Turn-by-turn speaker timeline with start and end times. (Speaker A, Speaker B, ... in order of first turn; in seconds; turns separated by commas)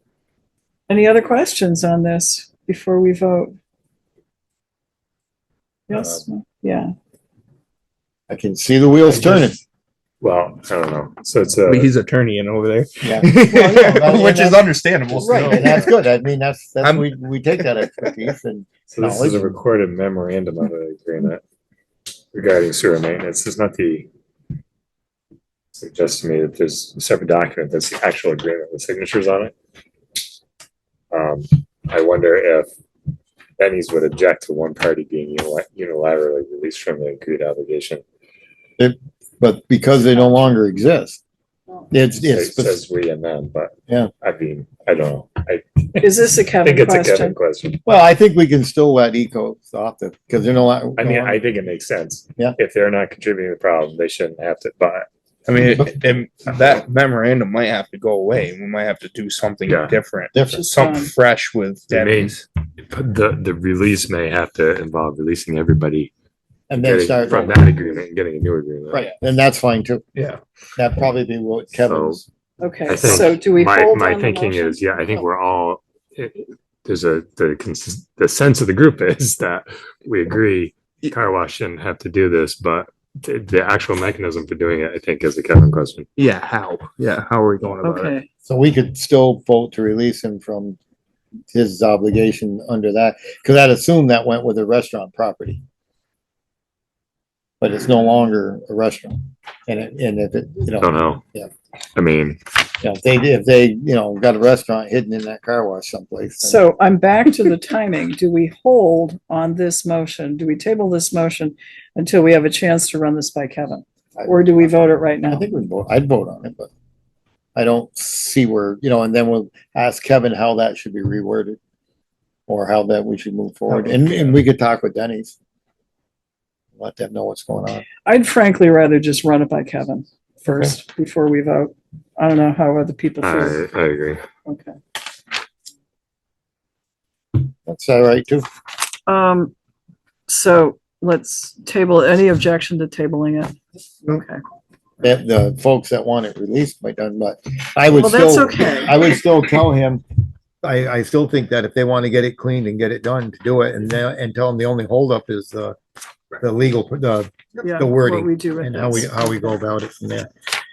Speaker A: 0.9-3.5, Speaker A: 5.9-6.9, Speaker B: 8.3-9.6, Speaker C: 10.2-11.9, Speaker D: 11.7-15.8, Speaker B: 13.0-19.6, Speaker A: 13.5-14.0, Speaker A: 15.1-15.8, Speaker D: 16.8-17.1, Speaker C: 18.9-21.4, Speaker C: 22.3-24.1, Speaker C: 25.7-29.5, Speaker C: 31.1-32.7, Speaker C: 33.6-38.0, Speaker B: 38.8-41.2, Speaker B: 41.9-42.8, Speaker C: 42.3-47.8, Speaker A: 46.0-47.4, Speaker B: 47.9-51.4, Speaker C: 51.0-55.1, Speaker D: 55.5-62.5, Speaker C: 59.7-60.0, Speaker B: 60.3-60.7, Speaker A: 60.5-61.1, Speaker C: 61.9-66.1, Speaker B: 66.7-67.7, Speaker C: 66.8-69.1, Speaker B: 68.9-70.0, Speaker B: 70.8-72.2, Speaker C: 71.8-72.2, Speaker A: 72.6-75.3, Speaker C: 72.8-86.1, Speaker D: 86.2-88.2, Speaker A: 87.8-88.3, Speaker B: 88.4-90.8, Speaker B: 91.5-95.6, Speaker B: 97.6-101.5, Speaker C: 100.8-101.2, Speaker C: 101.9-102.4, Speaker B: 102.8-106.6, Speaker A: 106.4-115.5, Speaker B: 114.2-114.7, Speaker B: 115.3-116.7, Speaker B: 117.5-121.6, Speaker B: 122.5-125.3, Speaker B: 126.8-127.9, Speaker A: 128.1-133.6, Speaker C: 133.2-134.2, Speaker A: 134.4-134.8, Speaker B: 137.7-138.5, Speaker A: 139.1-139.5, Speaker A: 140.3-144.4, Speaker B: 145.0-150.0, Speaker A: 147.9-149.2, Speaker B: 150.6-155.8, Speaker B: 156.4-160.3, Speaker A: 157.6-159.2